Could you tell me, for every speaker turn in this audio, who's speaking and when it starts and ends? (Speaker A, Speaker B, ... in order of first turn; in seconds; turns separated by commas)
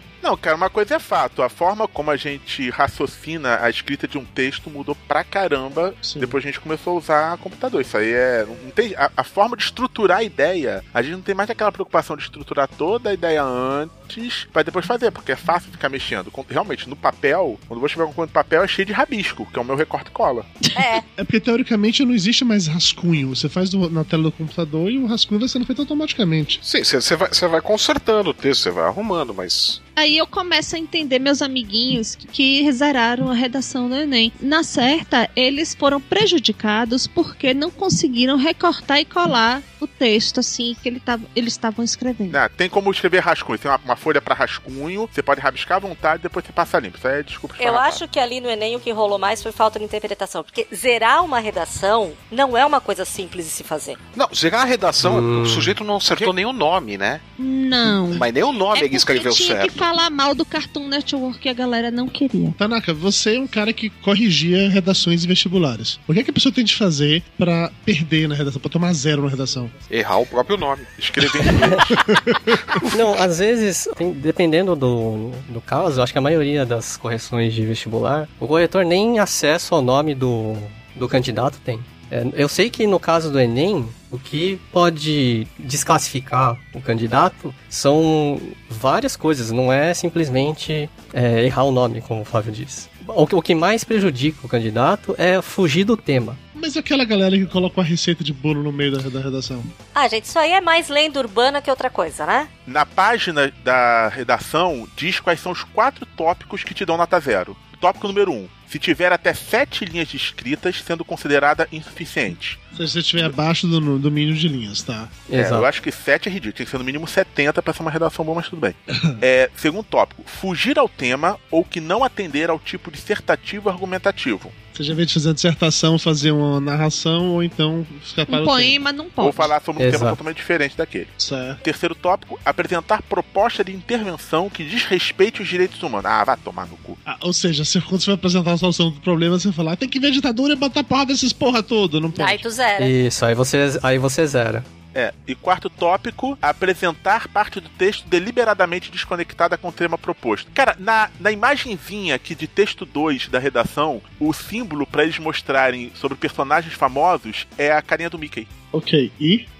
Speaker A: 0.2-20.5, Speaker B: 6.0-6.4, Speaker C: 20.7-21.0, Speaker B: 21.1-26.6, Speaker D: 26.6-29.8, Speaker E: 29.9-42.4, Speaker A: 42.3-48.0, Speaker C: 47.6-54.0, Speaker D: 54.1-57.2, Speaker F: 55.0-55.8, Speaker E: 57.4-62.6, Speaker D: 58.1-59.9, Speaker B: 62.6-69.7, Speaker D: 69.9-70.9, Speaker A: 71.0-72.0, Speaker D: 71.5-71.8, Speaker F: 72.8-96.4, Speaker B: 96.5-99.7, Speaker C: 99.9-102.5, Speaker A: 102.7-112.6, Speaker B: 112.7-115.2, Speaker F: 115.3-115.7, Speaker A: 115.3-124.5, Speaker B: 118.9-119.2, Speaker B: 124.7-128.8, Speaker E: 128.3-129.5, Speaker A: 129.2-137.0, Speaker F: 129.8-130.2, Speaker B: 131.2-131.6, Speaker B: 137.0-142.4, Speaker C: 142.1-142.9, Speaker F: 142.8-144.7, Speaker A: 144.9-158.5, Speaker B: 158.7-159.5